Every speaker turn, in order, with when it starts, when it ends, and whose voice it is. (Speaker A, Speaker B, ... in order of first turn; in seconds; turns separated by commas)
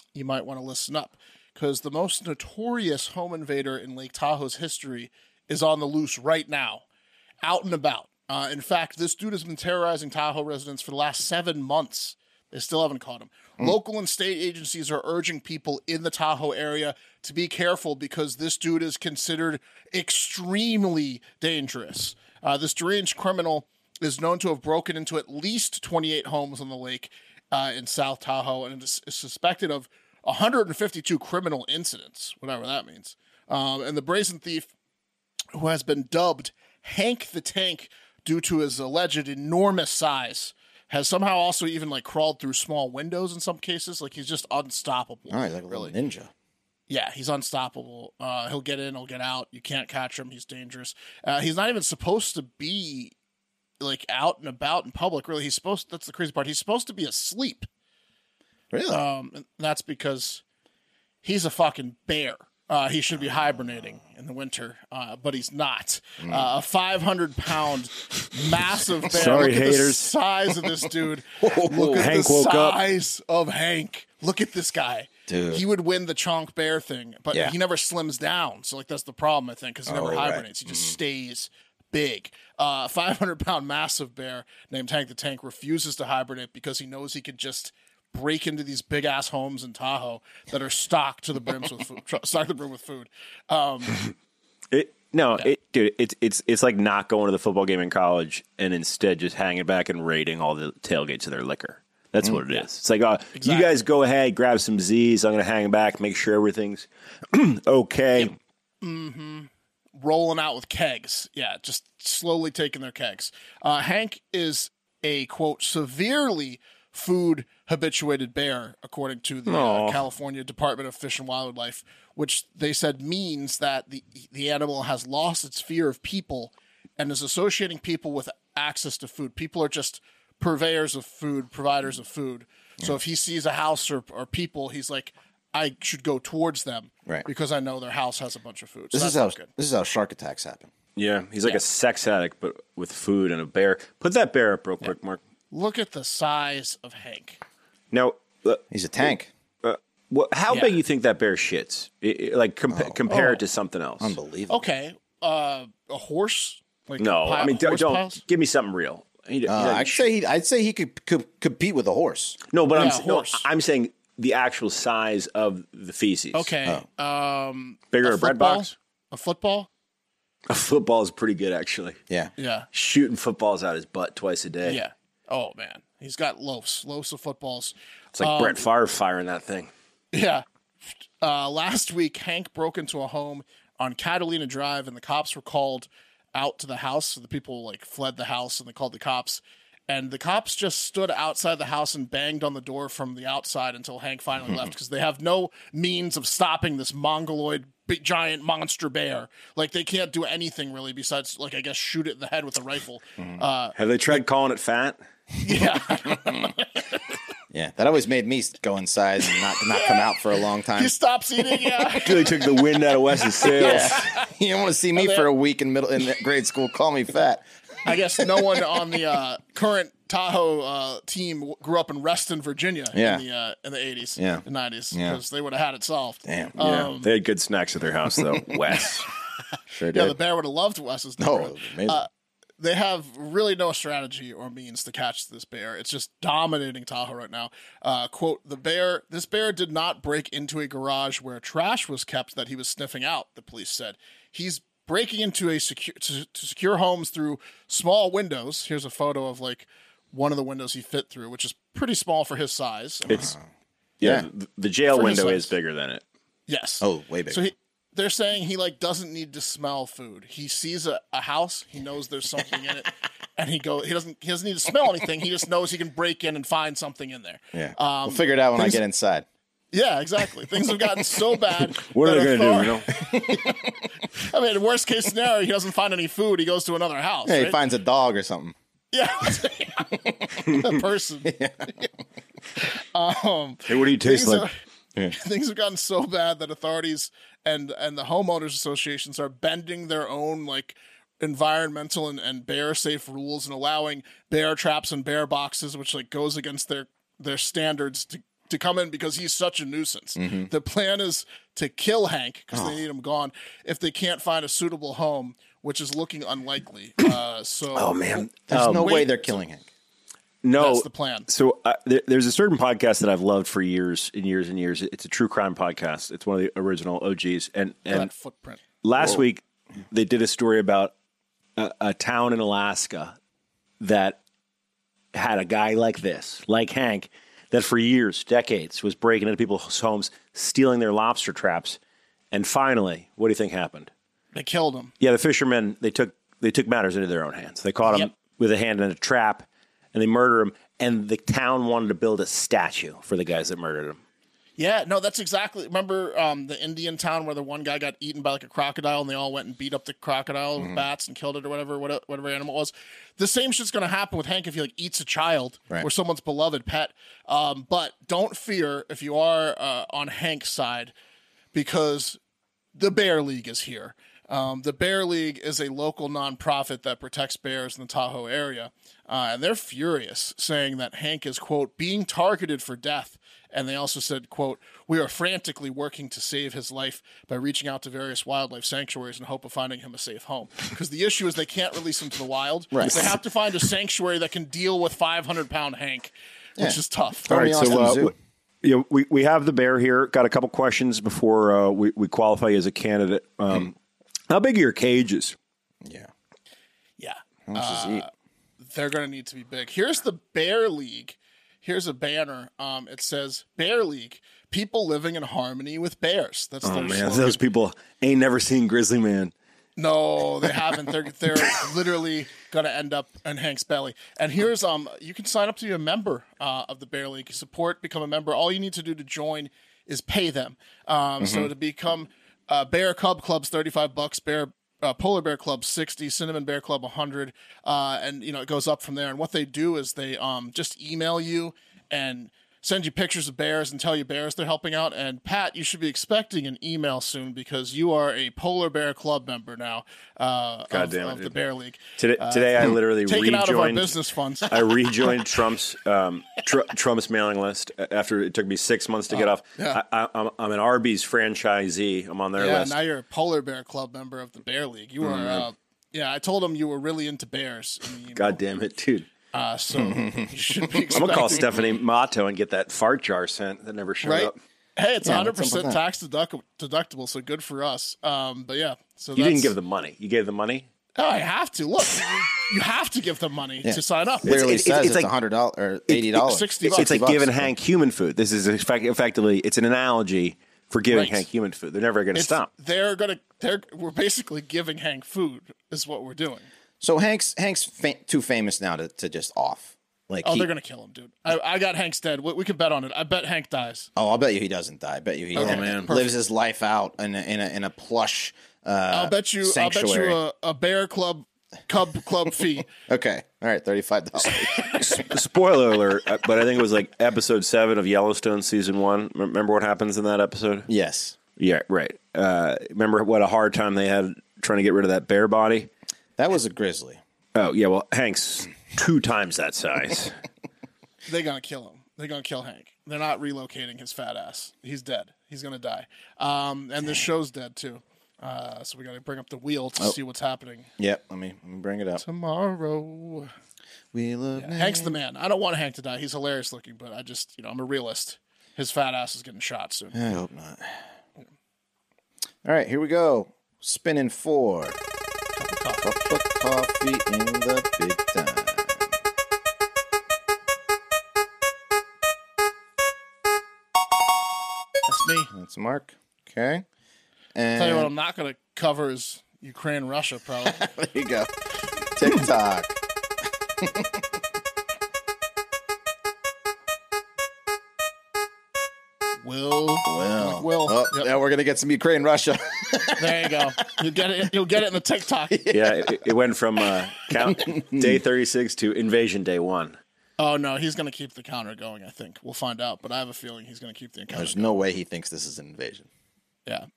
Speaker A: 0.1-6.8, Speaker A: 7.4-34.7, Speaker A: 35.5-45.9, Speaker B: 45.3-46.3, Speaker A: 46.9-53.1, Speaker A: 53.8-57.7, Speaker B: 58.7-59.0, Speaker A: 58.9-60.4, Speaker A: 61.2-94.0, Speaker B: 66.2-66.5, Speaker C: 69.1-70.1, Speaker B: 71.4-72.2, Speaker C: 71.8-72.8, Speaker B: 75.3-75.6, Speaker B: 79.8-80.9, Speaker C: 94.7-108.3, Speaker A: 103.3-103.7, Speaker A: 108.8-139.5, Speaker C: 119.5-120.0, Speaker B: 138.9-140.7, Speaker C: 140.9-145.2, Speaker A: 145.5-147.4, Speaker C: 147.9-148.6, Speaker B: 148.7-149.3, Speaker C: 149.6-154.2, Speaker A: 150.5-150.8, Speaker B: 152.7-153.0, Speaker A: 153.1-153.4, Speaker B: 154.0-154.7, Speaker A: 154.5-158.2, Speaker C: 157.0-160.0, Speaker B: 159.5-162.4, Speaker C: 162.5-166.5, Speaker A: 162.7-163.4, Speaker A: 166.3-169.7, Speaker C: 167.9-168.7, Speaker C: 170.5-172.0, Speaker A: 172.4-172.7, Speaker C: 172.7-174.8, Speaker A: 174.6-178.6, Speaker C: 178.1-179.7, Speaker A: 180.1-203.7, Speaker C: 203.8-205.0, Speaker A: 205.4-206.8, Speaker B: 206.1-206.5, Speaker B: 207.5-210.9, Speaker A: 209.7-210.1, Speaker A: 210.7-212.6, Speaker C: 212.0-214.0, Speaker A: 213.4-214.2, Speaker B: 213.5-218.6, Speaker A: 215.0-215.2, Speaker A: 217.8-227.1, Speaker B: 222.9-223.2, Speaker B: 224.2-225.2, Speaker B: 226.2-226.9, Speaker C: 226.7-229.1, Speaker B: 228.1-228.5, Speaker B: 229.7-230.2, Speaker A: 229.9-232.1, Speaker B: 231.2-232.0, Speaker A: 232.6-253.3, Speaker B: 253.1-253.4, Speaker C: 254.0-256.0, Speaker B: 254.0-254.3, Speaker A: 254.9-255.5, Speaker A: 256.5-268.8, Speaker B: 256.8-257.4, Speaker B: 267.5-269.2, Speaker A: 269.7-273.6, Speaker C: 271.7-272.9, Speaker B: 273.0-273.8, Speaker A: 274.1-277.6, Speaker B: 277.2-278.5, Speaker A: 278.9-281.4, Speaker B: 281.2-281.8, Speaker A: 282.6-284.5, Speaker C: 283.7-284.5, Speaker A: 285.1-309.4, Speaker B: 300.1-300.5, Speaker C: 307.7-309.0, Speaker B: 308.5-309.7, Speaker C: 310.4-318.1, Speaker A: 310.6-311.3, Speaker A: 317.9-318.6, Speaker C: 318.8-320.9, Speaker B: 319.0-319.2, Speaker C: 321.6-323.1, Speaker C: 323.8-324.2, Speaker C: 325.1-331.8, Speaker C: 332.3-333.9, Speaker A: 334.3-334.9, Speaker C: 335.0-344.0, Speaker A: 344.6-360.9, Speaker B: 350.6-350.8, Speaker A: 361.5-362.2, Speaker A: 362.7-388.1, Speaker B: 382.7-383.2, Speaker B: 386.6-388.1, Speaker C: 387.3-388.1, Speaker C: 388.6-393.7, Speaker C: 394.3-395.4, Speaker B: 395.8-396.1, Speaker A: 397.0-398.1, Speaker B: 397.5-398.0, Speaker A: 398.6-407.4, Speaker C: 406.6-409.3, Speaker A: 409.8-445.1, Speaker B: 421.2-421.5, Speaker C: 440.7-441.3, Speaker C: 442.0-443.9, Speaker C: 444.5-452.8, Speaker A: 449.1-449.8, Speaker A: 452.4-458.4, Speaker C: 458.1-459.1, Speaker A: 459.3-461.4, Speaker B: 459.7-460.7, Speaker C: 460.9-464.3, Speaker A: 464.0-469.5, Speaker B: 465.0-465.8, Speaker C: 469.1-470.7, Speaker A: 471.0-474.3, Speaker B: 473.6-477.5, Speaker C: 474.2-475.1, Speaker C: 475.9-482.5, Speaker A: 476.1-477.1, Speaker A: 480.9-481.2, Speaker A: 482.1-486.5, Speaker B: 486.8-490.5, Speaker A: 490.2-493.9, Speaker B: 493.9-500.2, Speaker A: 495.3-496.1, Speaker C: 495.4-496.0, Speaker A: 498.9-502.7, Speaker B: 502.7-504.8, Speaker C: 504.6-510.7, Speaker B: 510.7-511.2, Speaker C: 511.4-515.7, Speaker B: 516.2-517.0, Speaker C: 517.3-520.1, Speaker A: 521.1-530.7, Speaker B: 530.8-532.0, Speaker A: 532.0-533.3, Speaker B: 533.9-535.0, Speaker A: 534.4-540.1, Speaker B: 539.9-540.8, Speaker B: 542.4-544.8, Speaker A: 545.4-545.9, Speaker B: 545.8-548.9, Speaker A: 554.9-555.3, Speaker B: 555.3-556.6, Speaker B: 557.3-557.9, Speaker A: 557.5-560.7, Speaker B: 560.4-561.3, Speaker B: 561.9-562.8, Speaker B: 563.6-564.0, Speaker A: 569.2-571.1, Speaker B: 569.9-573.4, Speaker A: 573.0-575.4, Speaker B: 575.3-576.1, Speaker C: 575.5-579.8, Speaker B: 577.1-578.0, Speaker A: 580.2-584.6, Speaker B: 584.1-585.9